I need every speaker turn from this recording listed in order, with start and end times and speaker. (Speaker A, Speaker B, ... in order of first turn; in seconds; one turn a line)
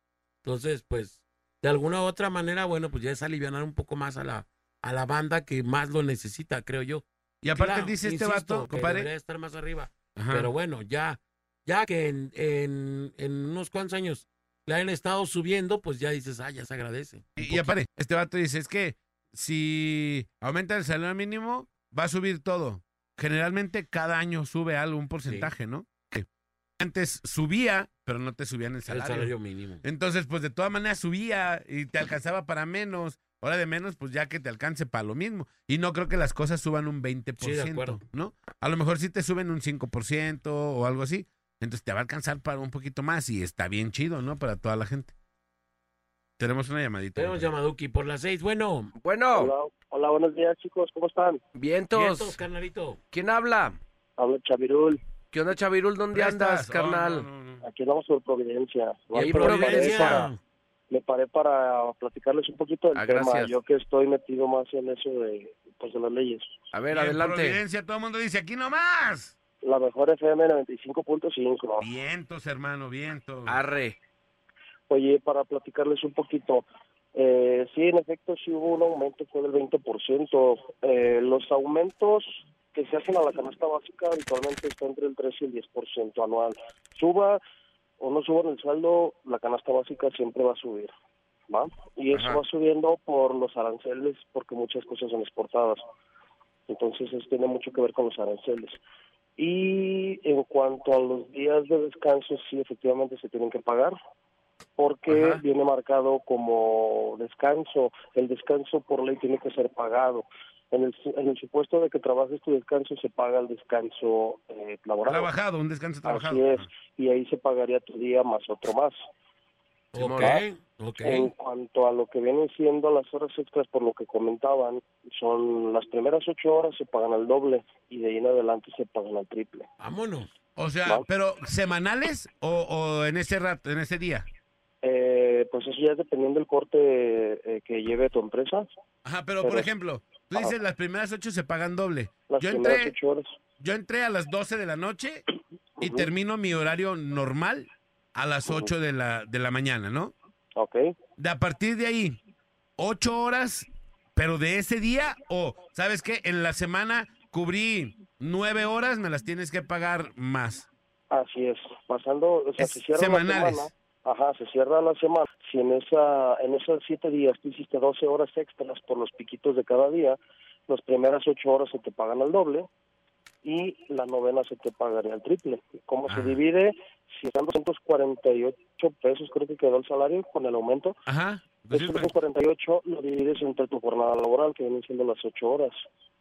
Speaker A: 0.4-17.7
Speaker B: 7.4-9.1
Speaker B: 10.1-10.5
Speaker B: 17.4-26.2
Speaker A: 25.2-25.5
Speaker B: 26.8-29.3
Speaker A: 28.9-29.8
Speaker B: 29.8-45.1
Speaker A: 37.4-38.0
Speaker B: 46.4-47.5
Speaker A: 47.1-48.9
Speaker C: 49.0-49.5
Speaker D: 49.3-51.4
Speaker C: 51.5-52.4
Speaker A: 51.9-53.0
Speaker C: 53.1-53.8
Speaker D: 54.2-55.0
Speaker C: 55.3-57.3
Speaker B: 56.1-57.6
Speaker D: 57.6-60.3
Speaker A: 59.1-60.4
Speaker C: 59.1-60.3
Speaker D: 60.9-66.5
Speaker C: 62.9-63.6
Speaker C: 66.7-67.6
Speaker B: 66.9-69.3
Speaker D: 69.6-71.9
Speaker B: 71.8-73.6
Speaker C: 73.5-74.0
Speaker D: 74.9-87.4
Speaker D: 88.0-90.9
Speaker D: 91.5-95.8
Speaker C: 92.1-92.4
Speaker D: 96.7-98.8
Speaker D: 99.4-103.9
Speaker D: 104.8-115.3
Speaker B: 105.1-105.4
Speaker B: 115.0-116.7
Speaker D: 116.0-119.0
Speaker A: 119.9-121.3
Speaker C: 120.0-120.4
Speaker D: 120.2-120.4
Speaker D: 121.0-129.7
Speaker A: 129.8-130.3
Speaker B: 130.6-134.2
Speaker D: 134.8-138.7
Speaker B: 139.0-142.9
Speaker D: 139.4-139.7
Speaker D: 142.3-143.3
Speaker B: 143.6-145.2
Speaker D: 145.8-146.1
Speaker B: 145.8-150.1
Speaker D: 148.5-148.7
Speaker D: 150.6-150.9
Speaker B: 151.2-152.2
Speaker B: 152.8-160.7
Speaker D: 161.1-172.7
Speaker B: 162.6-163.7
Speaker D: 173.4-181.0
Speaker B: 176.1-176.4
Speaker B: 181.1-182.1
Speaker D: 181.7-185.8